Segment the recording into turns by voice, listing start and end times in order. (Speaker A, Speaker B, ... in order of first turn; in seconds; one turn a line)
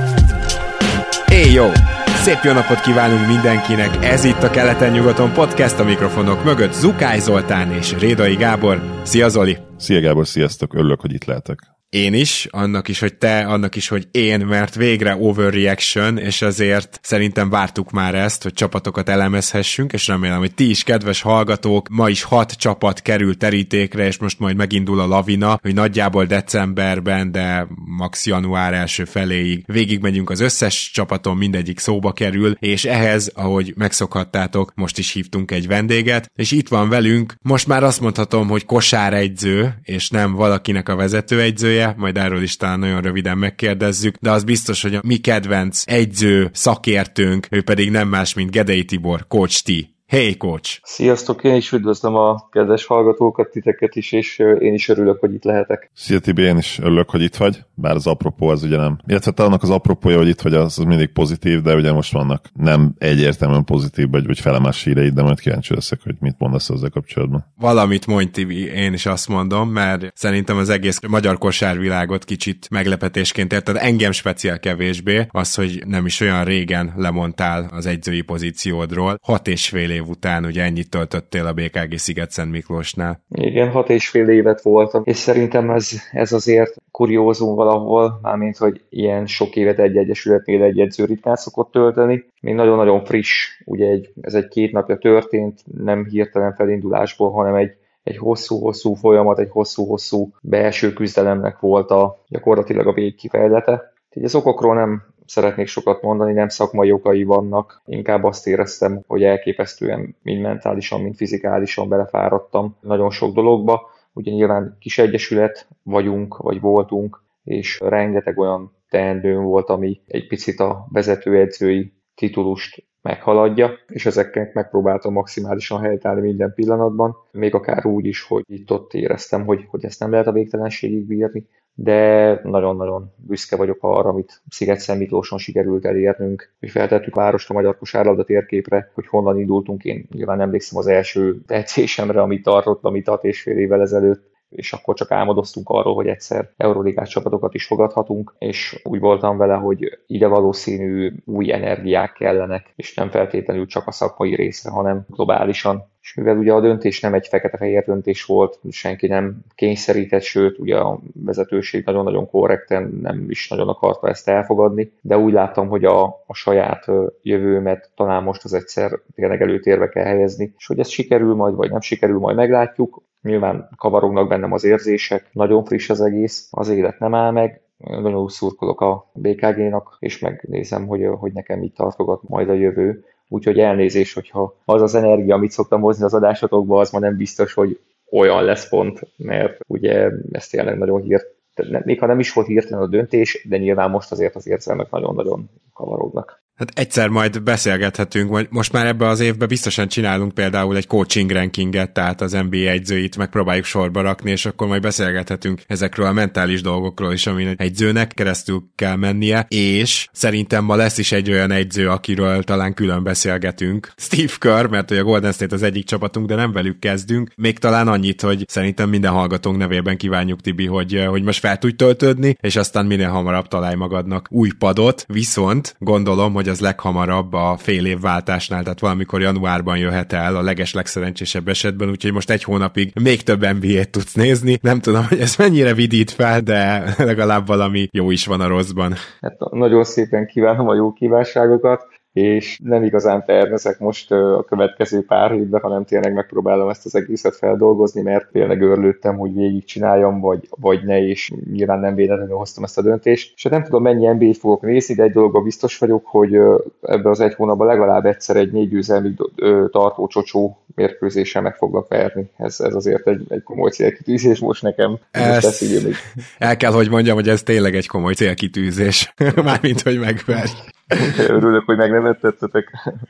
Speaker A: 1.3-9.6
Speaker B: 9.8-11.7
Speaker A: 11.9-50.8
Speaker C: 50.9-55.9
Speaker B: 56.0-67.5
Speaker A: 67.6-83.2
Speaker C: 83.3-196.3
Speaker A: 196.6-239.0
Speaker C: 239.2-266.0
Speaker A: 265.1-265.8
Speaker A: 266.4-271.1
Speaker C: 270.9-272.7